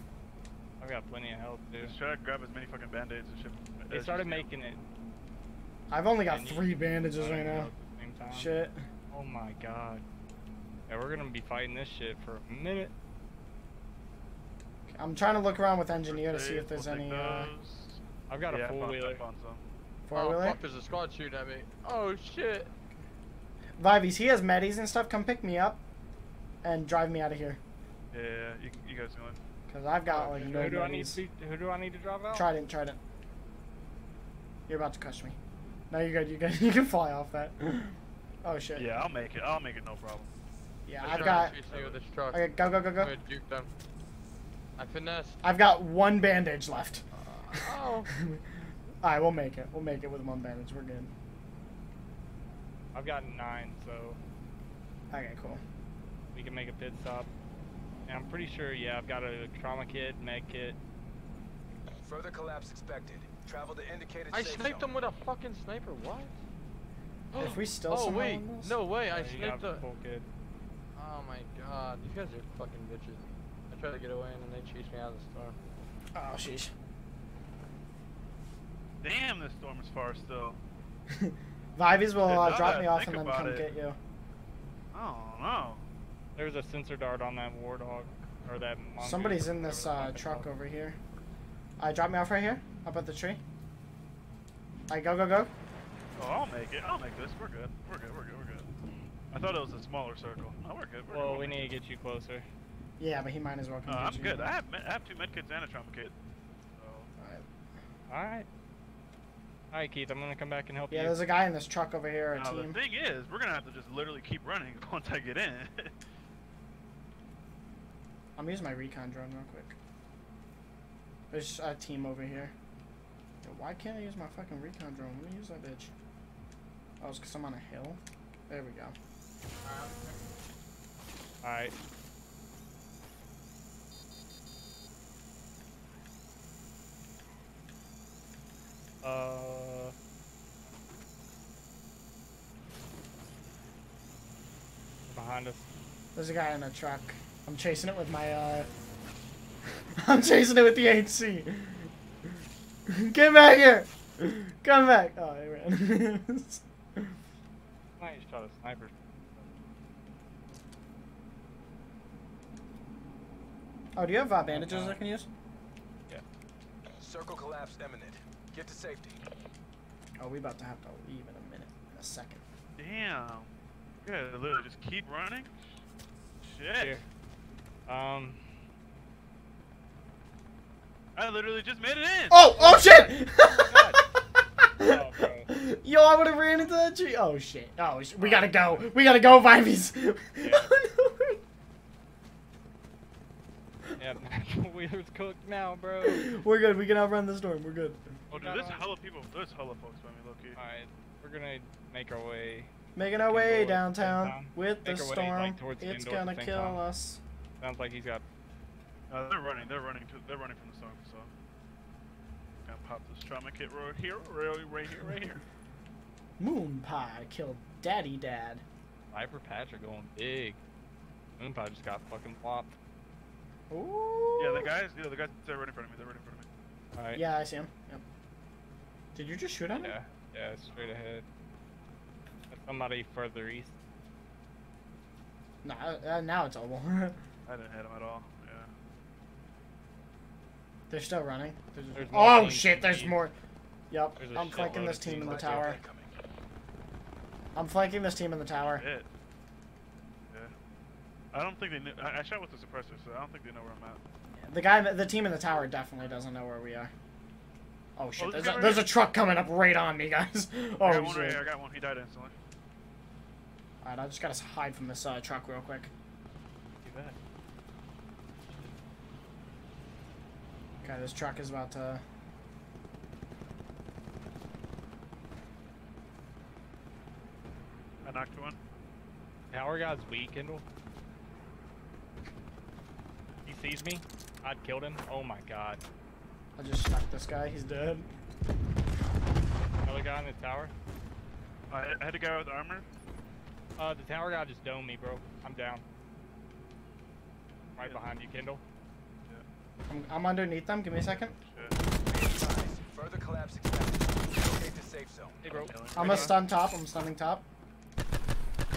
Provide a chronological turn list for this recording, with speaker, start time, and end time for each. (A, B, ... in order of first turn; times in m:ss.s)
0:00.8-0:01.9 A
0:01.8-0:04.5 B
0:03.9-0:04.8 A
0:05.9-0:07.7 C
0:06.3-0:08.5 A
0:08.3-0:08.8 C
0:09.1-0:10.0 A
0:10.9-0:12.9 A
0:14.9-0:17.5 C
0:15.9-0:19.6 B
0:18.3-0:19.2 A
0:20.1-0:20.6 C
0:20.2-0:22.7 D
0:23.8-0:25.8 C
0:26.6-0:27.6 C
0:28.1-0:29.4 B
0:29.7-0:31.2 C
0:30.1-0:32.5 A
0:30.2-0:30.7 B
0:32.3-0:33.0 C
0:34.7-0:35.4 C
0:35.9-0:38.9 C
0:38.8-0:40.3 B
0:40.9-0:41.6 C
0:41.0-0:43.7 D
0:41.1-0:42.0 B
0:42.3-0:43.2 C
0:44.8-0:45.4 D
0:45.4-0:51.1 C
0:47.2-0:48.1 D
0:52.9-0:54.2 A
0:55.1-0:55.6 C
0:56.3-0:57.3 A
0:58.1-1:00.8 A
1:02.0-1:05.0 E
1:04.3-1:06.3 D
1:07.3-1:09.8 D
1:07.4-1:08.8 C
1:09.1-1:10.3 A
1:11.0-1:15.6 D
1:16.2-1:16.7 C
1:19.0-1:20.6 B
1:21.1-1:24.0 C
1:22.2-1:23.7 B
1:24.9-1:25.8 B
1:26.4-1:30.5 A
1:29.0-1:31.0 C
1:31.8-1:33.4 C
1:34.9-1:35.5 C
1:36.2-1:38.7 B
1:39.3-1:41.7 B
1:41.1-1:42.5 A
1:43.0-1:44.5 C
1:43.9-1:46.1 B
1:46.8-1:47.1 B
1:47.2-1:47.4 C
1:48.1-1:48.5 A
1:49.7-1:51.2 A
1:50.9-1:52.8 C
1:52.3-1:55.9 B
1:58.4-1:59.8 C
2:01.3-2:02.5 C
2:03.4-2:05.9 C
2:07.0-2:09.0 C
2:09.6-2:10.1 D
2:11.4-2:11.7 A
2:19.0-2:19.9 A
2:25.1-2:25.7 A
2:26.2-2:28.7 C
2:30.0-2:31.9 C
2:32.9-2:37.1 C
2:38.0-2:39.4 A
2:44.0-2:45.3 C
2:44.5-2:45.0 A
2:47.0-2:49.2 E
2:50.2-2:52.4 C
2:52.8-2:53.5 B
2:54.0-2:55.6 B
2:56.4-2:57.0 B
2:56.8-2:57.0 A
2:57.9-2:58.4 A
3:01.2-3:02.5 B
3:02.3-3:04.0 C
3:02.6-3:04.0 A
3:04.6-3:11.4 C
3:04.8-3:05.5 A
3:08.2-3:08.8 B
3:10.4-3:10.7 A
3:14.0-3:16.4 A
3:16.0-3:18.2 C
3:18.3-3:18.8 A
3:18.3-3:20.6 B
3:20.6-3:26.8 A
3:23.0-3:27.2 C
3:27.6-3:28.2 A
3:29.1-3:31.3 B
3:32.6-3:35.4 B
3:36.4-3:38.6 C
3:39.1-3:40.6 A
3:41.4-3:42.7 A
3:43.7-3:44.7 C
3:44.4-3:46.5 B
3:46.9-3:47.2 A
3:47.2-3:48.0 C
3:49.2-3:50.0 C
3:49.8-3:51.2 A
3:52.5-3:53.8 A
3:55.6-3:57.2 C
3:57.5-3:58.7 B
4:00.9-4:03.3 C
4:01.9-4:03.2 A
4:03.9-4:05.8 C
4:04.2-4:05.8 A
4:04.6-4:06.1 E
4:07.6-4:08.9 C
4:08.6-4:09.1 B
4:10.3-4:10.5 B
4:11.3-4:14.0 B
4:14.4-4:16.9 C
4:18.0-4:21.4 C
4:18.2-4:19.0 B
4:20.8-4:22.4 B
4:23.8-4:25.9 C
4:26.8-4:27.2 B
4:30.8-4:32.0 C
4:38.0-4:38.6 B
4:39.5-4:40.6 A
4:43.4-4:45.8 A
4:46.6-4:48.1 C
4:49.8-4:50.7 A
4:51.7-4:52.9 B
4:53.8-4:55.8 A
4:57.8-4:58.6 A
4:57.8-4:58.1 B
4:59.9-5:01.4 C
5:01.2-5:01.8 B
5:02.0-5:05.4 E
5:05.4-5:06.4 A
5:05.4-5:06.4 B
5:06.0-5:07.4 C